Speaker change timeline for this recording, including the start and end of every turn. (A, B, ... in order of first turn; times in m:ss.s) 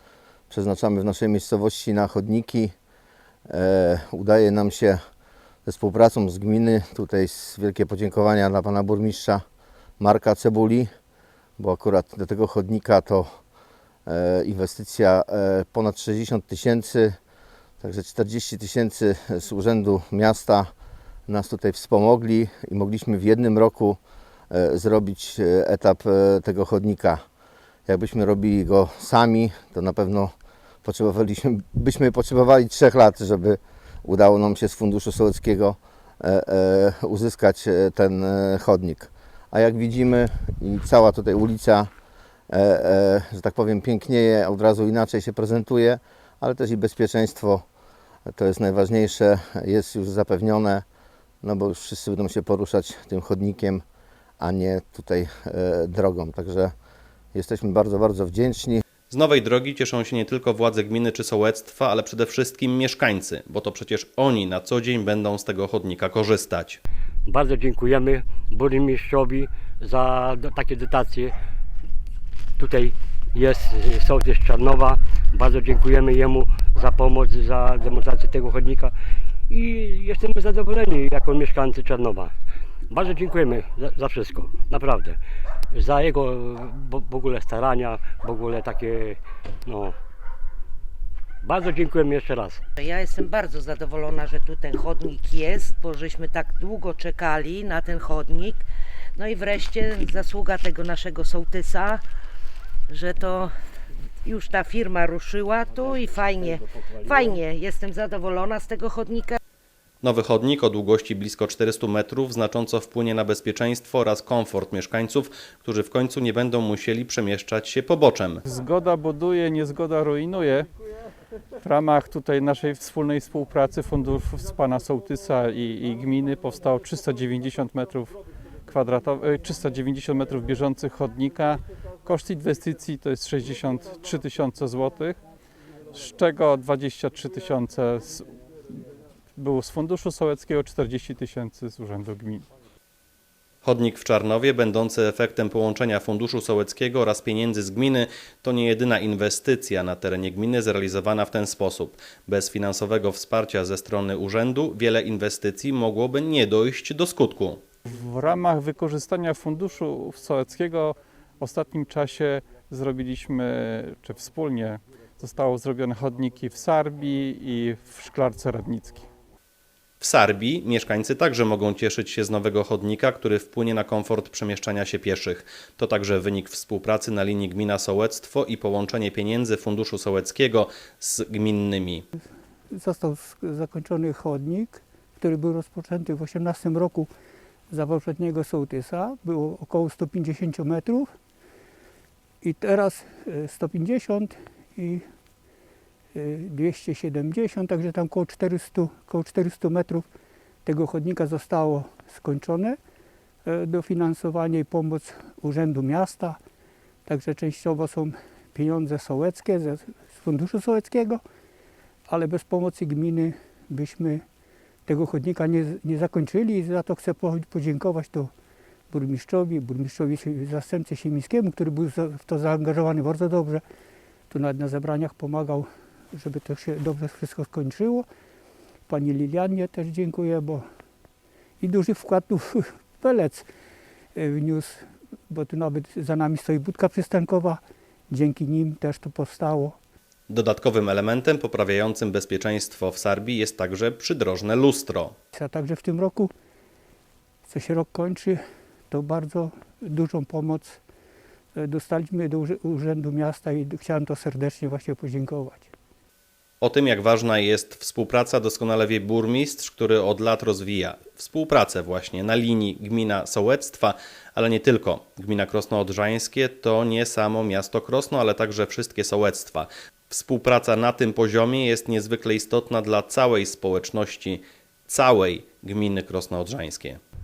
0:00.5-0:02.7 A
0:03.5-0:05.0 A
0:05.6-0:09.4 A
0:10.0-0:10.9 A
0:11.6-0:13.4 A
0:14.1-0:17.2 A
0:17.8-0:20.7 A
0:21.3-0:24.0 A
0:24.5-0:27.2 A
0:27.9-0:30.3 A
0:30.8-0:41.9 A
0:42.5-0:47.6 A
0:48.3-0:50.8 A
0:51.4-0:53.8 A
0:54.4-0:56.7 A
0:57.3-0:58.8 A
0:59.1-1:06.8 B
1:07.3-1:11.3 C
1:12.6-1:19.0 C
1:19.5-1:22.3 C
1:22.9-1:25.2 C
1:25.7-1:30.0 C
1:31.4-1:32.6 C
1:32.8-1:42.0 D
1:42.9-1:43.5 D
1:44.2-1:49.4 D
1:50.0-1:58.4 B
1:58.5-2:00.7 E
2:01.6-2:15.2 E
2:15.9-2:18.4 E
2:19.4-2:22.5 E
2:23.6-2:37.6 B
2:37.8-2:49.1 E
2:50.0-3:02.0 B
3:02.7-3:07.1 F
3:07.7-3:11.1 F
3:12.4-3:15.0 F
3:16.1-3:20.0 F
3:20.6-3:22.8 F
3:23.4-3:26.4 F
3:27.1-3:31.2 F
3:32.1-3:34.2 F
3:34.8-3:38.3 F
3:38.9-3:43.6 F
3:44.3-3:48.1 F
3:48.9-3:50.6 F
3:51.6-3:53.5 F
3:54.2-3:59.8 F
4:00.3-4:05.1 B
4:05.3-4:06.3 F
4:07.4-4:08.4 F
4:08.9-4:10.8 F
4:11.6-4:15.7 F
4:16.6-4:37.0 B